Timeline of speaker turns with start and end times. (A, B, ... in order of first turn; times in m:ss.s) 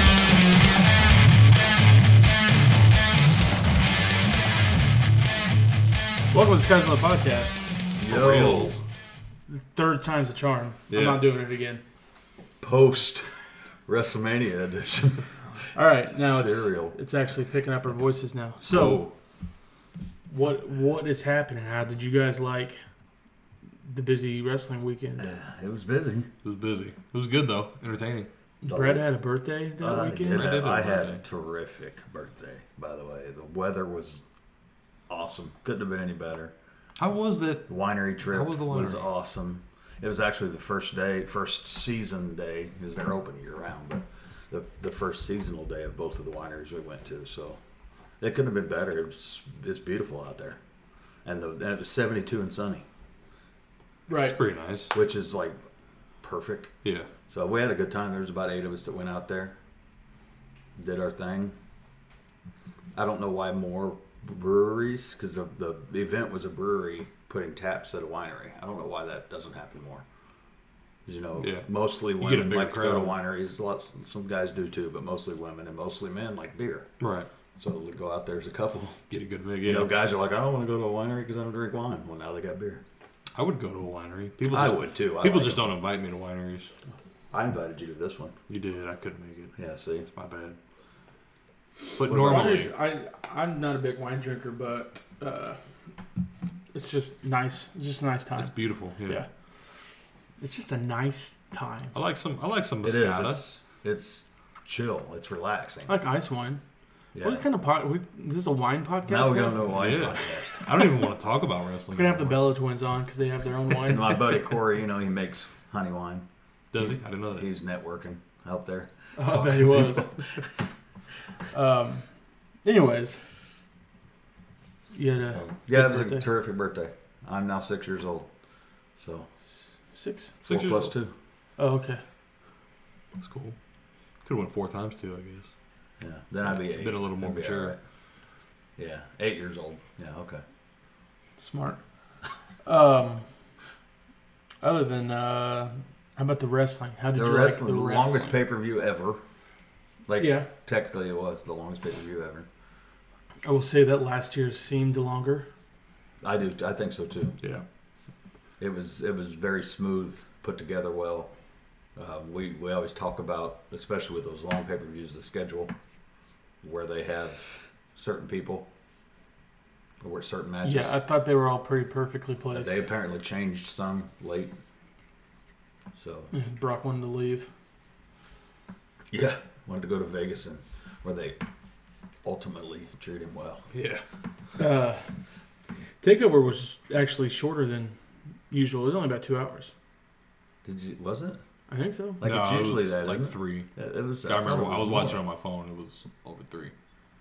0:06.3-0:07.6 A
0:08.0-0:08.8 B
0:08.1-0:08.8 C
0:09.5-0:11.8 A
0:10.9-0:11.2 C
0:12.6-0:13.3 B
0:13.8-0:15.3 B
0:15.7-0:19.0 A
0:16.1-0:17.0 B
0:18.6-0:19.1 C
0:20.3-0:22.8 A
0:23.8-0:25.3 A
0:25.2-0:26.3 B
0:26.4-0:28.3 C
0:28.6-0:30.4 A
0:28.7-0:29.1 B
0:29.8-0:34.2 B
0:30.3-0:31.2 C
0:35.1-0:36.5 B
0:37.0-0:39.1 C
0:37.7-0:47.6 B
0:48.2-0:50.6 B
0:51.2-0:52.8 B
0:54.1-0:54.4 A
0:54.3-0:54.9 C
0:54.9-0:55.6 B
0:56.2-0:56.7 B
0:56.8-0:57.1 C
0:57.3-0:59.6 B
1:00.8-1:01.6 B
1:02.9-1:10.0 B
1:11.0-1:16.9 B
1:11.4-1:13.2 C
1:17.0-1:17.3 C
1:17.6-1:19.0 B
1:19.1-1:19.9 C
1:19.6-1:22.8 B
1:23.3-1:26.7 C
1:24.5-1:25.7 B
1:27.3-1:28.3 B
1:28.5-1:29.6 C
1:29.6-1:30.1 B
1:30.1-1:30.6 C
1:32.0-1:32.7 C
1:32.1-1:32.6 B
1:32.1-1:35.6 A
1:36.7-1:39.3 A
1:38.4-1:39.2 C
1:40.4-1:42.0 A
1:41.9-1:43.4 C
1:42.8-1:45.9 B
1:45.8-1:46.6 A
1:47.1-1:47.4 B
1:47.2-1:50.8 A
1:49.0-1:50.6 B
1:49.7-1:52.5 C
1:51.9-1:54.4 A
1:53.8-2:00.4 B
1:56.7-1:57.5 C
1:59.2-2:00.2 A
2:01.5-2:02.1 A
2:02.6-2:03.2 A
2:04.9-2:06.3 A
2:05.3-2:08.3 B
2:09.0-2:09.3 B
2:09.9-2:10.3 A
2:10.4-2:11.1 B
2:10.4-2:10.9 C
2:11.6-2:12.0 A
2:13.2-2:13.6 C
2:14.2-2:15.5 C
2:16.0-2:17.8 B
2:16.4-2:17.8 C
2:18.8-2:20.4 B
2:21.4-2:22.0 A
2:22.6-2:23.3 A
2:24.6-2:28.4 A
2:27.1-2:29.2 B
2:30.1-2:32.5 B
2:30.2-2:30.5 A
2:33.4-2:35.5 A
2:36.2-2:37.4 B
2:38.6-2:41.3 B
2:41.9-2:45.7 B
2:46.6-2:48.7 B
2:50.0-2:51.0 B
2:50.6-2:52.8 A
2:52.5-2:54.5 B
2:55.9-2:56.3 B
2:56.3-2:57.5 A
2:59.1-3:01.4 B
3:02.2-3:03.7 B
3:03.7-3:04.0 C
3:04.6-3:05.1 A
3:06.0-3:08.0 A
3:08.5-3:09.7 A
3:10.6-3:11.4 B
3:11.7-3:12.2 A
3:12.2-3:15.2 B
3:12.2-3:13.7 C
3:14.2-3:16.7 C